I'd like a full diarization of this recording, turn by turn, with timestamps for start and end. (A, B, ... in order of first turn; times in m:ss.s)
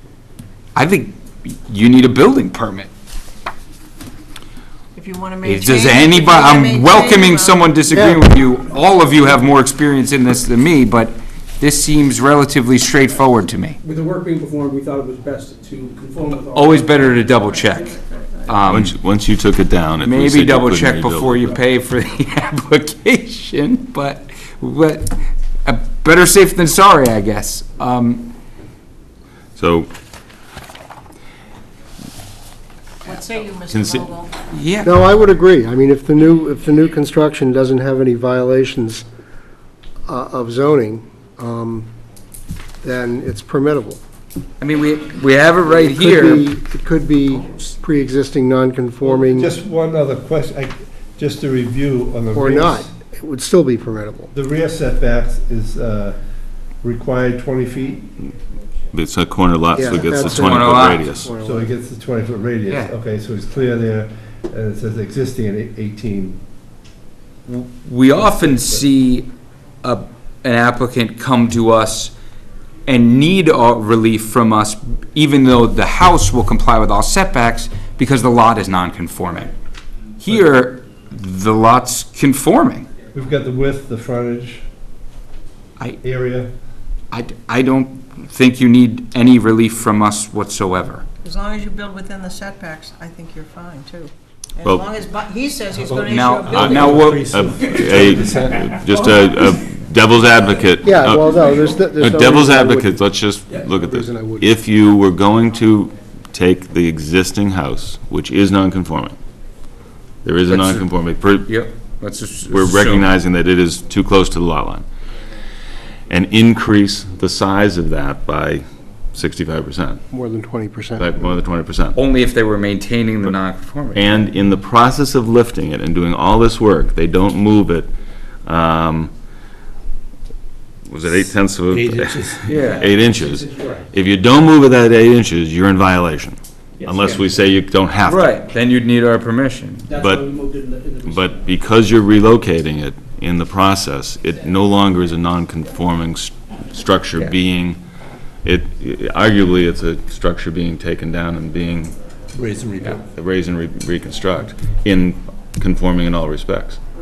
0:00.8-0:02.9 A
0:05.0-0:07.7 B
0:05.4-0:13.8 A
0:07.9-0:08.2 C
0:13.8-0:18.0 D
0:16.5-0:18.0 A
0:17.7-0:18.5 B
0:18.5-0:18.9 A
0:18.7-0:21.6 E
0:20.0-0:28.3 A
0:29.6-0:29.9 E
0:33.0-0:34.3 B
0:33.7-0:34.1 E
0:34.5-0:35.0 A
0:34.8-0:39.0 C
0:40.1-0:41.9 C
0:42.8-0:44.0 C
0:44.6-0:46.5 A
0:45.7-0:49.6 C
0:49.0-0:52.9 F
0:52.3-0:54.3 C
0:54.3-0:56.2 F
0:56.8-0:58.1 F
0:58.9-1:01.3 E
0:59.7-1:01.7 C
1:00.4-1:01.1 A
1:01.4-1:06.4 F
1:02.7-1:02.9 A
1:07.5-1:09.3 A
1:08.2-1:08.8 F
1:09.8-1:12.1 A
1:12.9-1:19.5 A
1:20.2-1:22.9 A
1:23.1-1:24.6 F
1:26.0-1:26.5 F
1:27.1-1:31.0 A
1:31.2-1:37.1 B
1:35.7-1:38.7 F
1:36.1-1:37.3 A
1:36.6-1:41.5 E
1:40.8-1:43.0 C
1:42.0-1:49.2 E
1:43.5-1:43.8 F
1:43.9-1:44.6 C
1:50.2-1:51.5 E
1:50.5-1:50.9 A
1:51.5-1:53.1 A
1:52.5-1:54.8 E
1:56.1-2:00.0 E
2:00.1-2:01.2 C
2:01.0-2:02.0 E
2:02.0-2:04.1 A
2:03.9-2:07.9 E
2:08.4-2:09.1 E
2:10.9-2:18.4 E
2:11.7-2:12.6 F
2:12.5-2:12.8 A
2:12.6-2:13.9 D
2:16.9-2:17.3 D
2:18.0-2:19.9 A
2:19.8-2:21.6 D
2:19.9-2:20.4 E
2:21.0-2:27.8 E
2:28.4-2:32.0 E
2:32.3-2:33.1 F
2:33.1-2:36.8 E